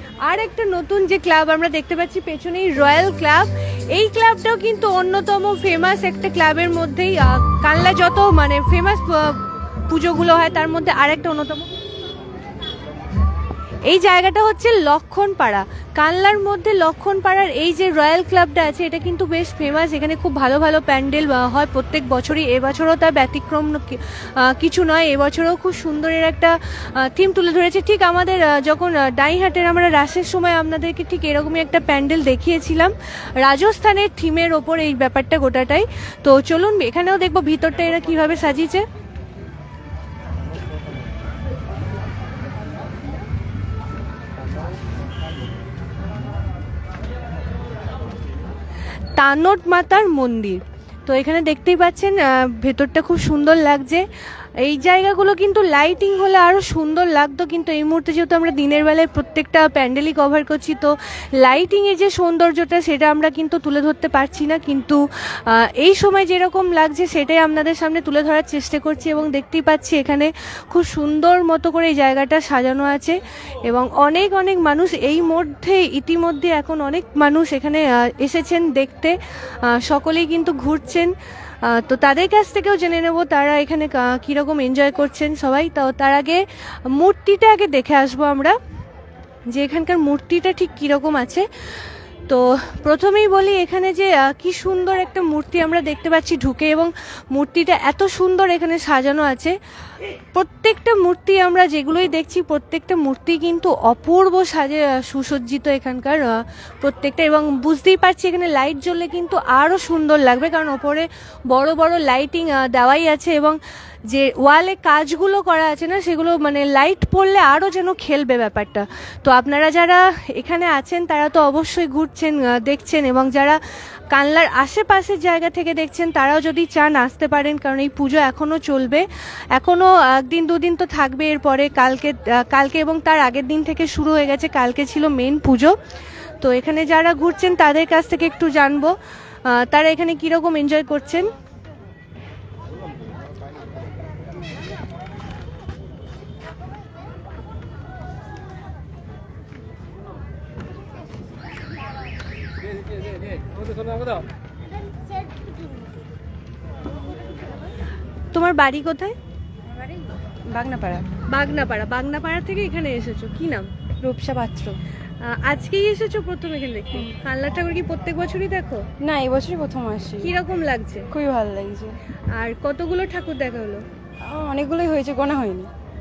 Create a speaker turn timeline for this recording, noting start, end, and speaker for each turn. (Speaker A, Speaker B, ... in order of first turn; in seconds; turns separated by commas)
Speaker A: 0.2-11.7, Speaker A: 13.8-38.8, Speaker A: 49.2-54.1, Speaker A: 54.6-88.5, Speaker A: 89.5-91.5, Speaker A: 92.3-99.5, Speaker A: 100.3-113.6, Speaker A: 114.1-123.6, Speaker A: 124.1-135.8, Speaker A: 136.4-138.9, Speaker A: 139.4-141.3, Speaker A: 158.3-159.2, Speaker B: 159.7-161.1, Speaker A: 161.3-163.7, Speaker B: 164.0-164.8, Speaker A: 165.2-168.9, Speaker B: 169.0-170.3, Speaker A: 170.2-171.1, Speaker B: 171.1-171.9, Speaker A: 172.3-173.8, Speaker B: 174.2-175.7